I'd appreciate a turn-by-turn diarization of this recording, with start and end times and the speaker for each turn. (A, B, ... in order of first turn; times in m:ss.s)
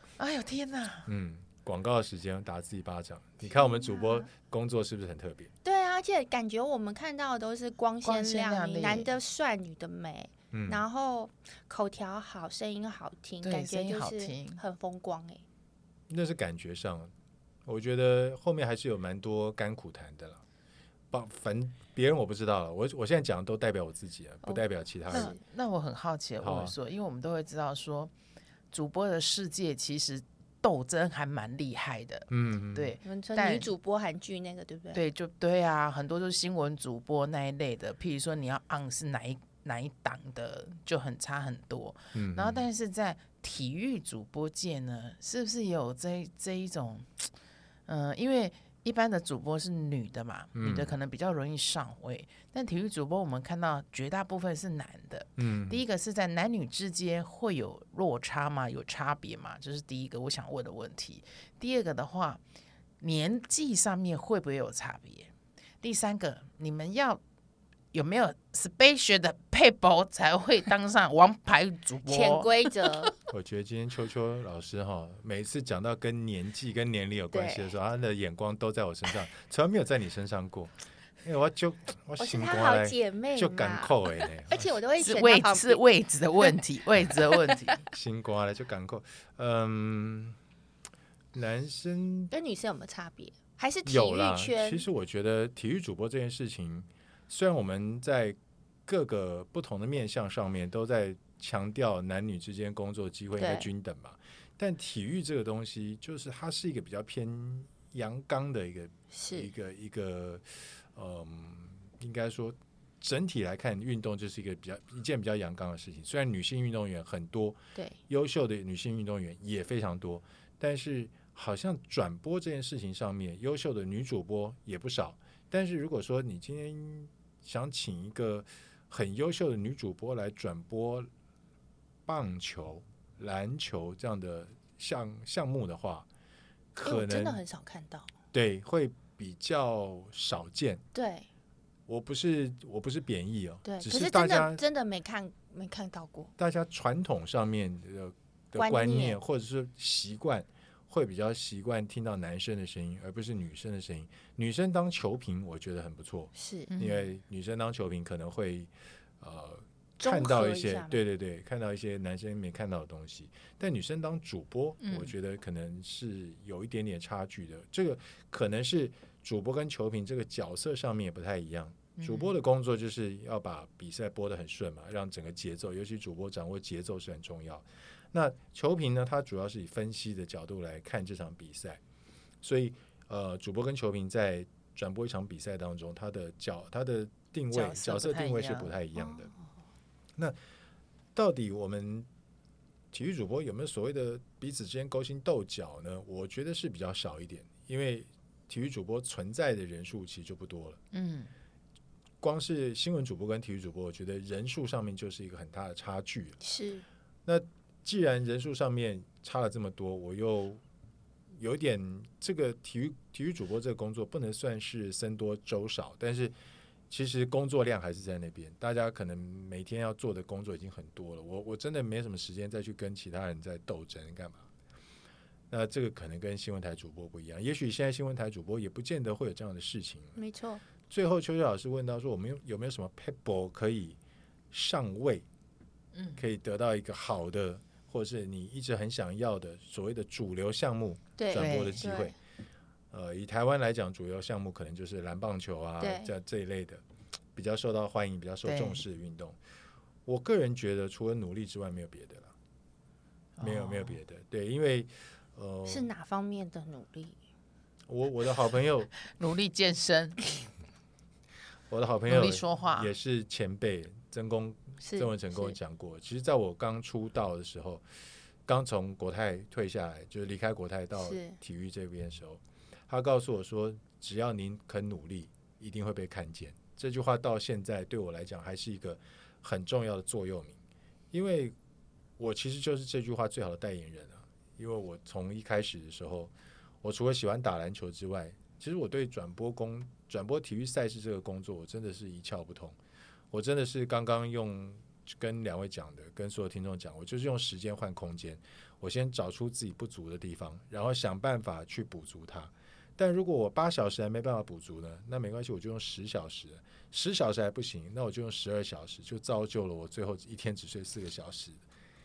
0:00.2-0:01.1 A
0:01.0-0:05.5 B
0:03.4-0:04.3 C
0:05.6-0:15.4 C
0:08.0-0:09.1 A
0:10.5-0:10.8 B
0:13.4-0:14.6 A
0:16.1-0:17.1 B
0:17.6-0:20.4 B
0:21.1-0:25.3 B
0:24.4-0:25.4 C
0:25.1-0:28.1 A
0:26.4-0:26.7 B
0:28.7-0:33.7 A
0:32.3-0:32.9 B
0:33.0-0:35.0 C
0:34.9-0:47.3 A
0:42.1-0:42.6 B
0:47.9-1:02.4 A
0:50.5-0:50.9 B
0:55.4-0:55.8 B
1:03.0-1:07.2 A
1:07.9-1:12.5 A
1:12.0-1:13.1 C
1:13.3-1:24.7 B
1:17.3-1:17.7 C
1:22.2-1:25.8 C
1:25.0-1:27.8 A
1:27.9-1:30.4 B
1:31.3-1:32.3 B
1:32.3-1:34.8 C
1:33.8-1:57.6 B
1:43.4-1:43.7 C
1:49.1-1:49.5 C
1:58.1-2:11.1 B
2:12.0-2:16.1 B
2:16.7-2:17.4 B
2:16.8-2:18.1 C
2:18.3-2:20.8 B
2:20.9-2:21.3 C
2:21.9-2:24.6 B
2:23.6-2:26.3 C
2:26.4-3:01.8 B
2:28.6-2:29.2 C
2:36.4-2:36.7 C
2:36.7-2:37.1 A
2:40.0-2:41.0 C
2:44.8-2:45.1 A
2:52.0-2:52.3 A
3:02.4-3:09.3 B
3:07.5-3:08.7 A
3:09.0-3:09.3 C
3:11.1-3:12.1 B
3:12.9-3:20.8 B
3:20.9-3:21.3 A
3:22.2-3:26.4 B
3:26.4-3:26.8 C
3:27.2-3:30.6 B
3:31.4-3:36.3 B
3:36.9-3:44.4 B
3:45.5-3:50.2 B
3:50.2-3:50.6 C
3:50.9-3:54.0 B
3:54.5-3:55.2 B
3:55.9-3:56.2 A
3:56.2-4:02.1 B
4:01.2-4:02.1 C
4:01.3-4:01.8 A
4:02.9-4:06.8 B
4:05.8-4:06.1 C
4:07.3-4:09.4 B
4:08.4-4:08.8 A
4:10.0-4:12.3 B
4:13.4-4:14.0 A
4:13.4-4:15.9 B
4:15.6-4:17.2 C
4:17.9-4:18.9 B
4:19.0-4:20.2 A
4:21.7-4:27.8 B
4:22.1-4:22.9 A
4:24.8-4:25.6 C
4:28.4-4:40.6 B
4:31.0-4:31.4 C
4:41.1-4:41.5 B
4:42.2-4:52.8 B
4:53.3-5:11.6 B